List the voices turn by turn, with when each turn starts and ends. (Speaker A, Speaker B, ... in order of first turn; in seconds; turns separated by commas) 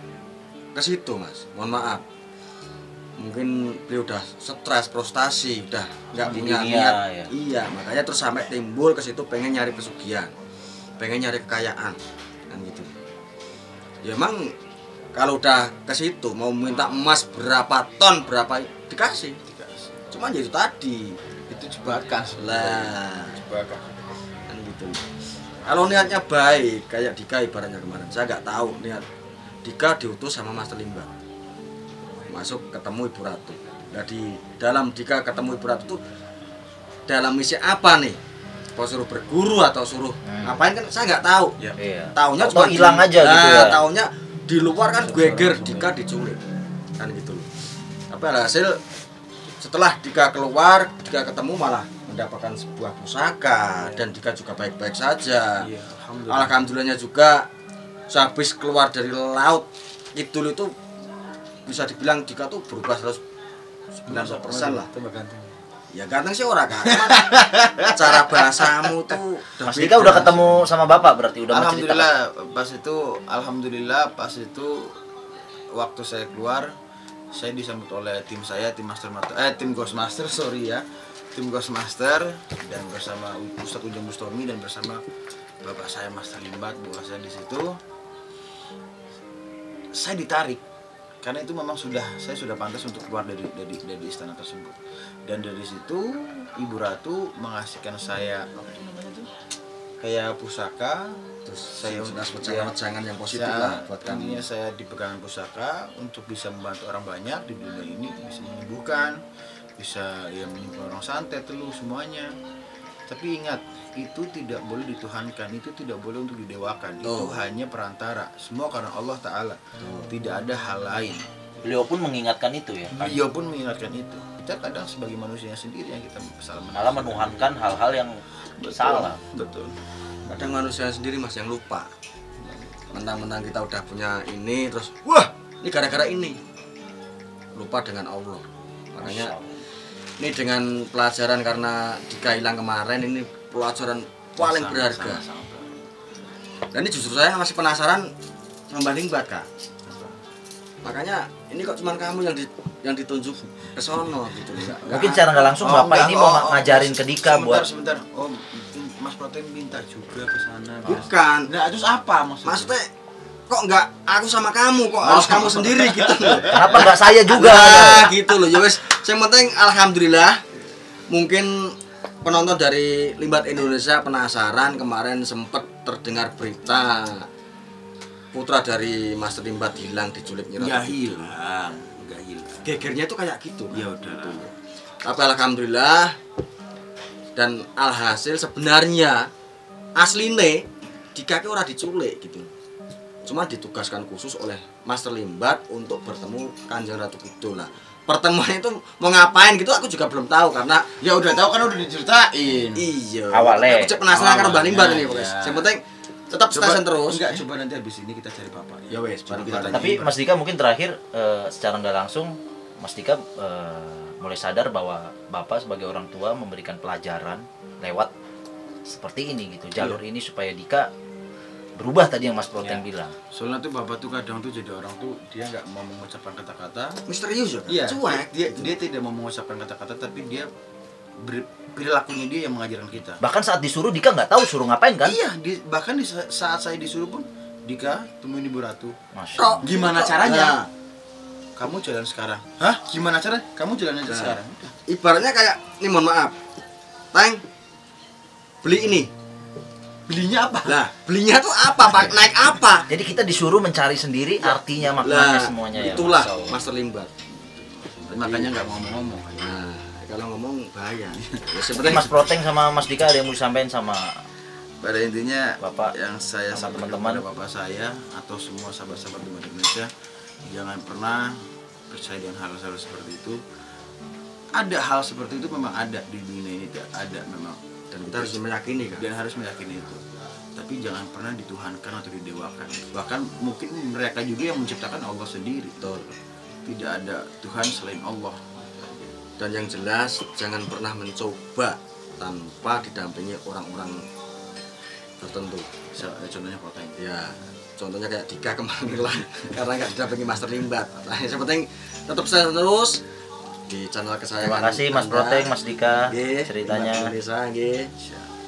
Speaker A: 0.8-2.0, Speaker A: 3.2-10.3, Speaker B: 6.3-7.3, Speaker A: 11.0-12.0, Speaker A: 12.5-12.9, Speaker A: 14.0-14.5, Speaker A: 15.1-19.4, Speaker C: 19.5-20.1, Speaker A: 20.1-21.2, Speaker C: 21.5-23.9, Speaker A: 22.4-23.3, Speaker A: 24.5-25.0, Speaker A: 25.6-29.0, Speaker A: 29.6-31.1, Speaker A: 32.3-36.0, Speaker A: 37.1-38.2, Speaker A: 38.8-41.6, Speaker B: 40.3-40.6, Speaker B: 41.8-43.8, Speaker A: 42.2-46.4, Speaker C: 44.9-46.0, Speaker A: 47.0-47.5, Speaker A: 48.1-48.8, Speaker A: 49.6-55.7, Speaker C: 53.8-54.1, Speaker C: 55.6-56.7, Speaker A: 56.3-57.5, Speaker A: 58.1-60.7, Speaker A: 61.7-63.2, Speaker A: 64.0-64.9, Speaker C: 64.1-65.5, Speaker A: 65.9-67.3, Speaker C: 66.8-68.9, Speaker A: 67.9-70.6, Speaker B: 69.7-72.1, Speaker C: 70.1-70.5, Speaker C: 71.5-74.9, Speaker C: 75.7-76.7, Speaker C: 77.3-85.0, Speaker C: 85.6-87.8, Speaker C: 89.9-90.6, Speaker C: 91.2-99.3, Speaker C: 100.0-101.2, Speaker A: 101.5-104.5, Speaker C: 101.8-102.7, Speaker C: 103.3-109.2, Speaker C: 109.8-112.3, Speaker C: 113.1-121.2, Speaker A: 117.0-117.4, Speaker A: 119.8-120.1, Speaker B: 121.6-123.2, Speaker C: 122.9-127.5, Speaker B: 126.7-128.2, Speaker C: 128.6-129.8, Speaker B: 128.7-129.2, Speaker A: 130.3-131.9, Speaker C: 132.4-132.7, Speaker A: 132.9-136.4, Speaker A: 137.6-139.3, Speaker C: 139.0-139.5, Speaker A: 140.2-145.2, Speaker C: 144.4-145.8, Speaker A: 146.7-148.1, Speaker A: 148.7-149.5, Speaker C: 149.9-150.2, Speaker A: 150.8-155.2, Speaker C: 154.6-162.7, Speaker B: 154.9-157.7, Speaker A: 160.9-161.5, Speaker A: 162.4-162.9, Speaker A: 163.5-170.4, Speaker C: 165.0-166.9, Speaker B: 166.5-168.1, Speaker A: 171.1-177.3, Speaker A: 178.3-181.3, Speaker C: 180.6-182.8, Speaker A: 182.6-184.5, Speaker C: 183.7-184.5, Speaker A: 185.0-186.2, Speaker A: 187.3-189.3, Speaker A: 190.0-192.5, Speaker A: 193.2-200.9, Speaker C: 201.0-202.9, Speaker A: 202.8-207.4, Speaker B: 203.3-204.0, Speaker C: 204.1-205.7, Speaker C: 206.5-210.2, Speaker A: 208.9-210.0, Speaker B: 209.7-218.1, Speaker B: 218.9-220.9, Speaker B: 221.8-223.2, Speaker C: 222.6-227.0, Speaker A: 227.1-228.7, Speaker C: 227.7-230.5, Speaker C: 231.2-233.2, Speaker B: 233.2-235.2, Speaker C: 235.0-238.9, Speaker B: 239.2-239.6, Speaker A: 239.4-240.7, Speaker C: 239.6-240.6, Speaker C: 241.6-244.7, Speaker A: 244.1-244.4, Speaker A: 244.9-246.3, Speaker A: 247.1-247.4, Speaker A: 248.6-249.1, Speaker C: 250.1-250.8, Speaker A: 250.7-252.9, Speaker B: 251.9-252.2, Speaker B: 252.9-256.4, Speaker A: 254.4-257.1, Speaker C: 257.4-259.6, Speaker A: 258.1-258.6, Speaker A: 259.4-262.2, Speaker B: 261.7-264.1, Speaker C: 264.8-269.9, Speaker B: 265.6-265.9, Speaker B: 266.5-267.2, Speaker C: 270.5-271.4, Speaker C: 271.9-273.4, Speaker C: 274.6-278.4, Speaker A: 277.9-279.1, Speaker C: 278.9-280.0, Speaker C: 280.6-285.8, Speaker A: 285.8-286.1, Speaker C: 286.7-289.1, Speaker A: 289.4-294.0, Speaker A: 295.2-295.7, Speaker C: 295.9-297.0, Speaker A: 297.0-303.0, Speaker A: 303.7-305.5, Speaker B: 304.4-307.2, Speaker A: 306.1-307.9, Speaker C: 308.0-308.3